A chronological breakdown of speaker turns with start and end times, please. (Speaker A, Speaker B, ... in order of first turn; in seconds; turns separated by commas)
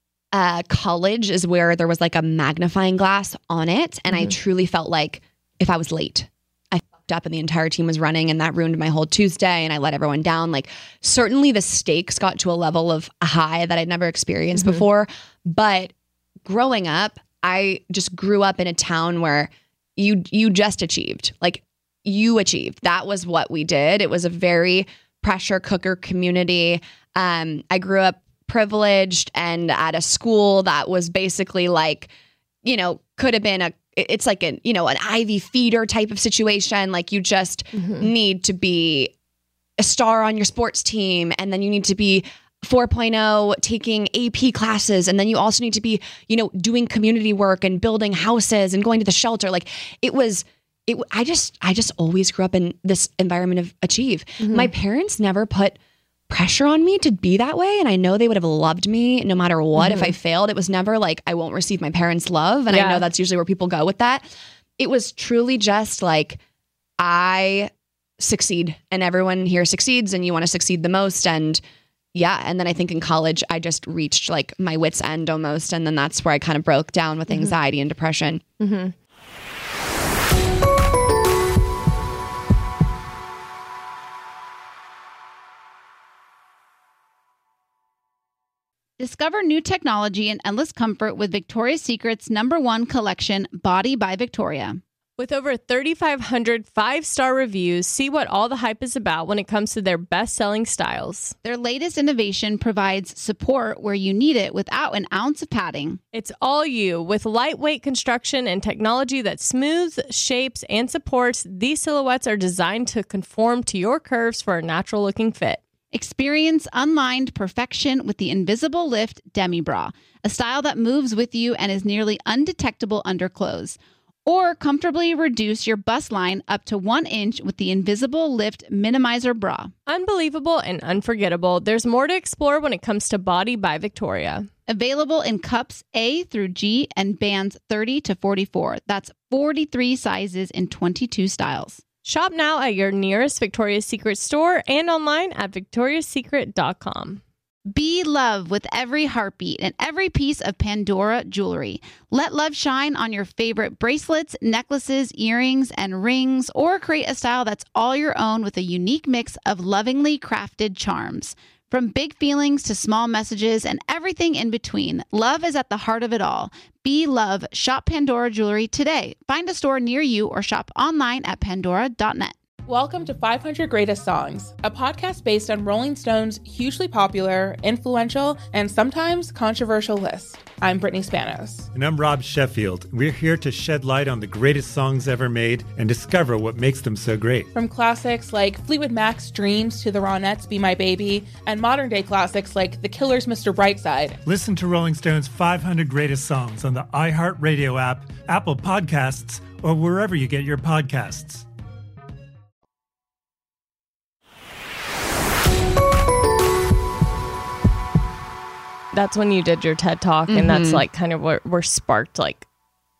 Speaker A: 0.3-15.9, Speaker B: 14.6-14.8, Speaker A: 16.4-32.1, Speaker A: 32.6-39.1, Speaker B: 37.8-38.1, Speaker A: 39.8-55.8, Speaker B: 54.4-54.7, Speaker A: 56.3-64.3, Speaker B: 59.8-60.1, Speaker B: 62.7-63.0, Speaker A: 64.8-66.4, Speaker A: 67.0-71.6, Speaker A: 72.2-78.4, Speaker B: 77.3-77.5, Speaker B: 78.6-78.9, Speaker C: 89.0-94.8, Speaker B: 95.2-101.3, Speaker C: 101.5-106.0, Speaker B: 106.1-115.6, Speaker C: 115.9-129.7, Speaker B: 129.9-134.5, Speaker C: 134.7-141.8, Speaker B: 142.0-147.2, Speaker C: 147.7-172.4, Speaker D: 172.7-181.7, Speaker E: 181.7-187.5, Speaker D: 187.5-194.2, Speaker E: 194.3-201.4, Speaker B: 208.9-212.5, Speaker A: 210.3-210.8